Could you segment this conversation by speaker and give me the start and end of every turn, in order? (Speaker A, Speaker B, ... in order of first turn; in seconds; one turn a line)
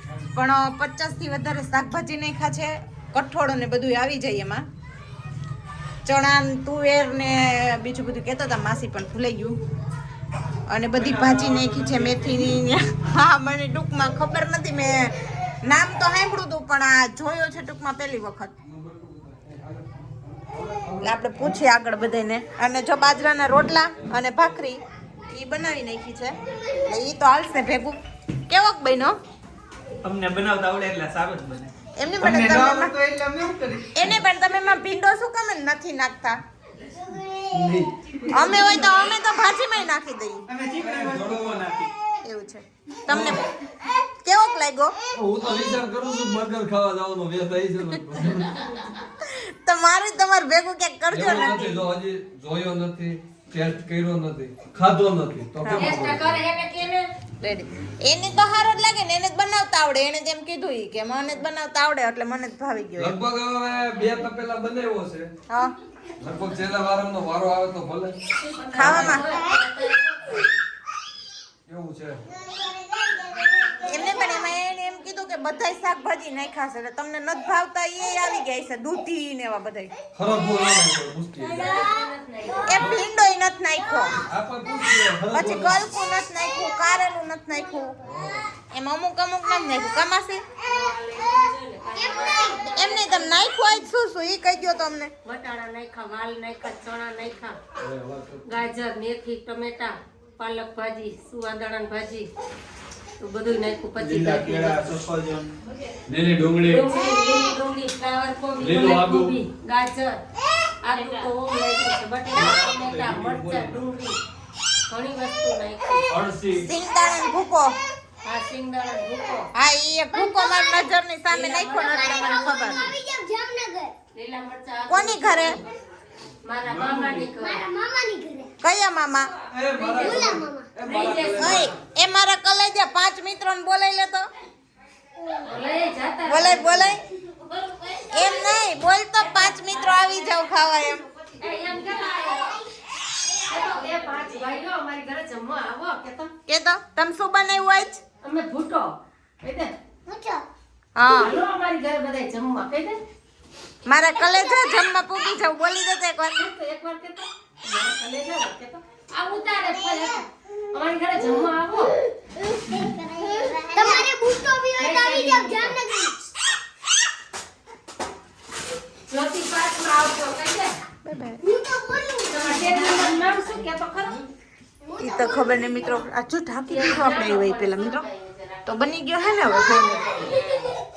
Speaker A: 0.3-4.7
Speaker A: 6.0-9.6
Speaker A: 10.7-15.1
Speaker B: 10.9-12.5
Speaker A: 15.7-18.5
Speaker C: 18.7-21.6
Speaker A: 21.0-28.0
Speaker A: 28.5-29.2
Speaker B: 30.0-34.0
Speaker A: 32.0-33.0
Speaker A: 33.9-36.4
Speaker C: 37.5-38.8
Speaker A: 38.3-40.4
Speaker B: 40.5-41.9
Speaker C: 40.8-41.6
Speaker A: 42.2-43.4
Speaker C: 43.1-43.4
Speaker A: 44.2-44.9
Speaker C: 45.1-48.6
Speaker A: 49.0-51.9
Speaker C: 51.1-56.4
Speaker A: 55.6-55.9
Speaker D: 55.7-57.1
Speaker A: 57.4-63.2
Speaker C: 63.0-65.3
Speaker C: 66.2-68.2
Speaker D: 68.3-70.1
Speaker A: 68.8-69.4
Speaker C: 68.8-69.2
Speaker C: 71.7-72.2
Speaker E: 72.5-73.5
Speaker A: 73.7-79.9
Speaker C: 80.2-81.7
Speaker D: 81.4-82.8
Speaker A: 82.7-84.2
Speaker C: 82.7-83.0
Speaker C: 84.3-85.8
Speaker A: 85.3-87.9
Speaker C: 88.0-88.5
Speaker A: 88.5-90.4
Speaker D: 90.7-93.5
Speaker A: 92.7-95.1
Speaker D: 95.2-97.6
Speaker C: 97.8-98.6
Speaker D: 98.5-102.3
Speaker D: 103.2-105.0
Speaker B: 104.0-105.5
Speaker C: 106.1-106.9
Speaker D: 106.6-110.2
Speaker C: 108.6-109.4
Speaker D: 110.8-114.2
Speaker C: 112.3-113.8
Speaker D: 114.9-116.1
Speaker C: 116.1-116.7
Speaker A: 116.6-117.8
Speaker D: 118.2-119.5
Speaker A: 119.5-122.8
Speaker E: 120.1-120.9
Speaker D: 121.3-122.9
Speaker E: 121.9-123.9
Speaker D: 124.1-125.6
Speaker A: 124.9-125.6
Speaker D: 126.4-127.6
Speaker C: 126.7-127.3
Speaker E: 127.3-128.5
Speaker A: 128.6-129.3
Speaker C: 129.5-131.8
Speaker D: 129.7-131.7
Speaker E: 130.0-130.7
Speaker A: 131.4-134.3
Speaker E: 135.2-135.5
Speaker D: 135.4-138.3
Speaker A: 136.3-137.0
Speaker A: 138.1-141.1
Speaker D: 139.2-140.1
Speaker D: 141.4-142.6
Speaker D: 143.5-146.3
Speaker A: 146.5-148.0
Speaker D: 148.2-149.7
Speaker E: 150.1-150.4
Speaker A: 151.0-151.3
Speaker D: 151.1-153.0
Speaker A: 153.9-156.4
Speaker D: 156.4-161.9
Speaker E: 162.4-166.3
Speaker D: 164.8-165.8
Speaker D: 169.1-170.7
Speaker A: 171.1-171.4
Speaker E: 171.4-172.9
Speaker D: 172.3-174.2
Speaker E: 174.9-175.8
Speaker A: 175.0-178.1
Speaker D: 176.7-178.8
Speaker A: 178.7-180.3
Speaker D: 179.7-180.8